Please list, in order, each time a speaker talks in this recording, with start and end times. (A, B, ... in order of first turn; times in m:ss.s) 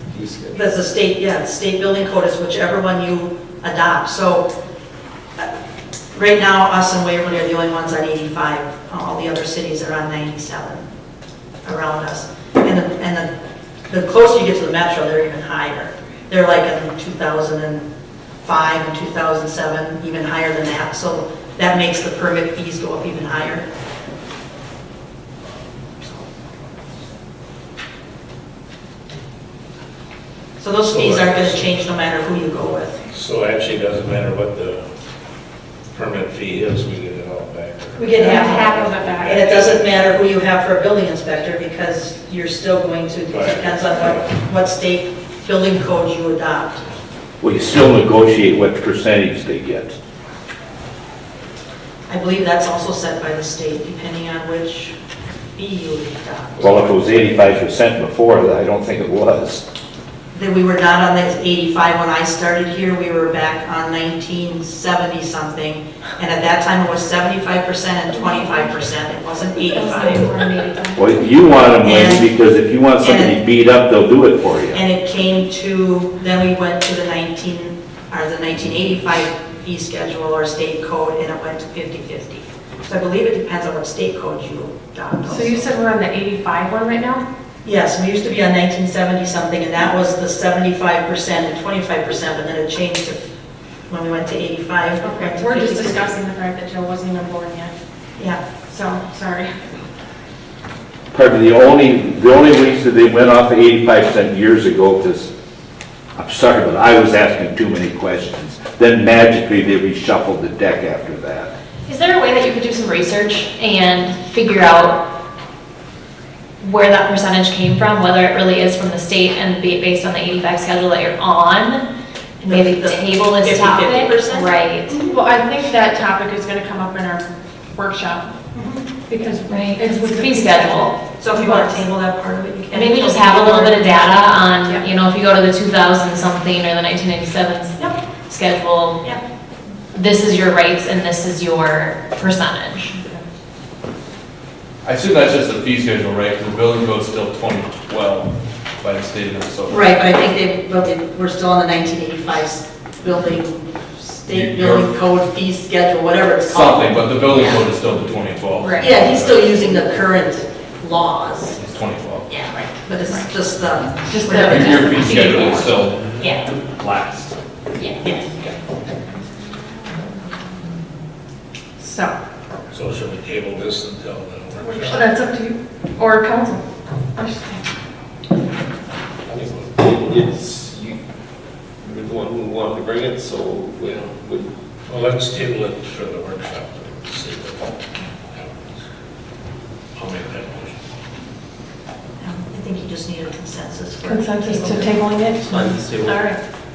0:00.1-0:00.5 A
0:00.5-0:04.5 B
0:06.1-0:10.9 B
0:11.6-0:13.3 B
0:13.9-0:17.9 B
0:18.4-0:23.7 B
0:30.6-0:33.0 B
0:30.8-0:31.7 C
0:33.1-0:34.8 C
0:35.9-0:40.0 C
0:38.0-0:46.8 B
0:38.2-0:39.4 D
0:43.3-0:44.3 C
0:47.4-0:50.0 E
0:52.1-0:55.0 B
0:55.6-0:57.0 B
0:56.6-0:59.6 E
1:00.3-1:10.3 B
1:08.1-1:08.7 D
1:09.6-1:11.0 D
1:09.8-1:11.0 F
1:11.0-1:14.8 E
1:11.8-1:12.3 B
1:13.0-1:13.4 B
1:14.7-1:25.8 B
1:25.3-1:27.2 D
1:27.6-1:33.3 B
1:33.9-1:36.1 B
1:35.0-1:37.7 D
1:38.7-1:39.8 D
1:41.1-1:45.3 E
1:46.2-1:51.5 E
1:51.9-1:55.1 F
1:56.6-2:01.9 F
2:02.4-2:04.6 B
2:02.5-2:05.0 F
2:04.9-2:08.3 D
2:08.5-2:08.9 B
2:09.1-2:11.7 D
2:09.5-2:11.0 F
2:11.2-2:13.9 B
2:12.7-2:19.1 F
2:19.9-2:22.9 F
2:24.8-2:29.8 G
2:29.7-2:37.5 B
2:34.3-2:35.0 G
2:36.5-2:39.5 G
2:37.3-2:37.6 F
2:38.6-2:38.9 D
2:38.8-2:41.6 B
2:41.6-2:42.3 G
2:42.3-2:42.7 F
2:42.8-2:45.4 B
2:44.0-2:45.8 D
2:44.4-2:46.0 G
2:45.9-2:46.3 C
2:46.2-2:46.5 F
2:46.7-2:47.3 G
2:47.8-2:48.6 F
2:48.0-2:48.5 B
2:51.8-2:52.2 D
2:52.7-2:55.0 C
2:54.6-2:56.6 D
2:57.2-2:57.6 D
2:59.3-3:00.4 C
2:59.9-3:01.0 A
3:01.8-3:04.4 A
3:03.8-3:07.7 C
3:08.3-3:08.8 C
3:10.0-3:10.8 C
3:12.2-3:15.8 B
3:14.1-3:15.5 D
3:15.6-3:16.0 A
3:16.1-3:16.4 F